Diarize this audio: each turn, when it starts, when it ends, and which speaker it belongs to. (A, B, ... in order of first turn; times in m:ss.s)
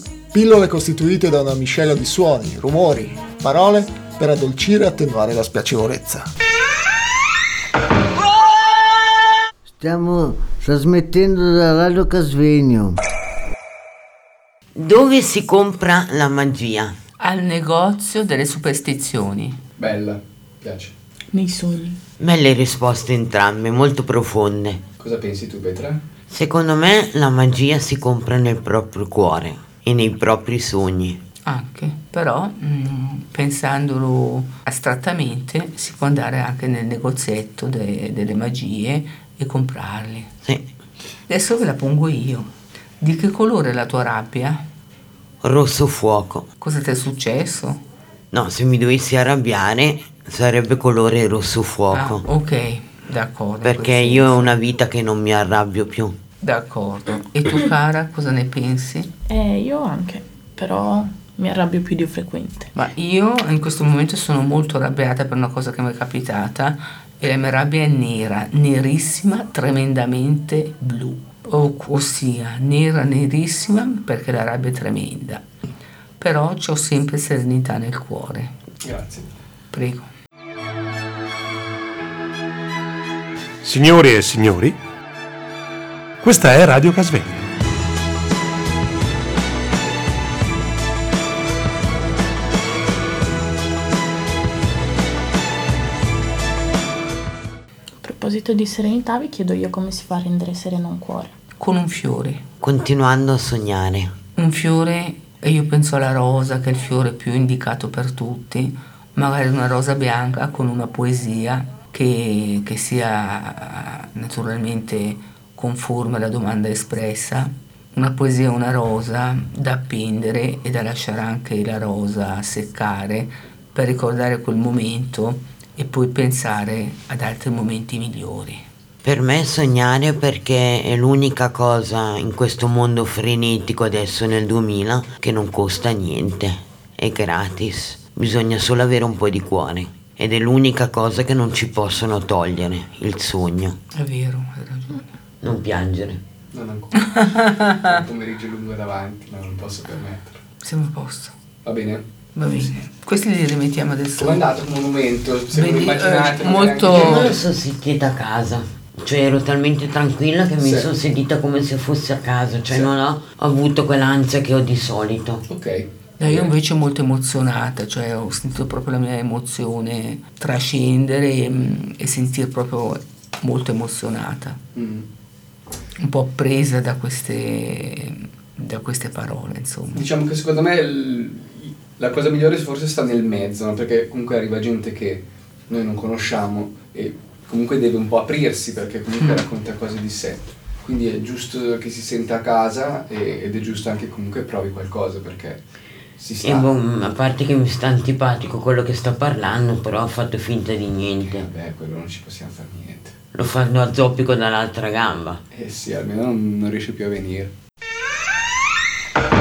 0:00.3-0:06.3 A
0:09.8-0:13.0 B
0:14.8-0:17.0 C
0:17.2-0:19.6 D
0:19.8-0:20.9 E
0:21.3-0:22.0 F
0:22.2-0:24.8 C
0:25.0-0:26.0 E
0:26.3-0:31.2 C
0:31.4-0:40.3 D
0:41.3-0:44.6 D
0:45.4-0:46.5 C
0:46.6-0:47.8 D
0:48.3-0:52.2 C
0:51.9-0:54.5 D
0:53.6-0:56.1 C
0:56.4-0:59.1 D
0:59.3-1:02.7 F
1:02.7-1:15.4 D
1:16.2-1:18.5 D
1:18.8-1:19.3 E
1:19.7-1:20.1 D
1:23.6-1:24.8 G
1:26.2-1:27.4 G
1:38.0-1:41.3 F
1:41.6-1:42.4 D
1:42.6-1:44.1 C
1:44.4-2:08.6 D
2:09.0-2:23.8 C
2:23.9-2:25.1 D
2:25.4-2:26.2 C
2:26.5-2:27.2 E
2:27.1-2:27.9 D
2:27.8-2:30.4 E
2:30.6-2:31.3 D
2:31.6-2:32.0 E
2:32.4-2:34.4 D
2:34.2-2:37.4 E
2:35.5-2:37.4 D
2:36.8-2:45.4 C
2:40.6-2:40.9 E
2:45.5-2:46.5 E
2:46.2-2:54.6 D
2:54.7-2:55.0 E
2:56.0-3:00.0 D
2:59.9-3:15.6 E
3:09.2-3:09.5 D
3:16.2-3:16.7 E
3:16.4-3:21.5 C
3:21.2-3:23.1 E
3:23.3-3:25.4 C
3:25.5-3:27.5 E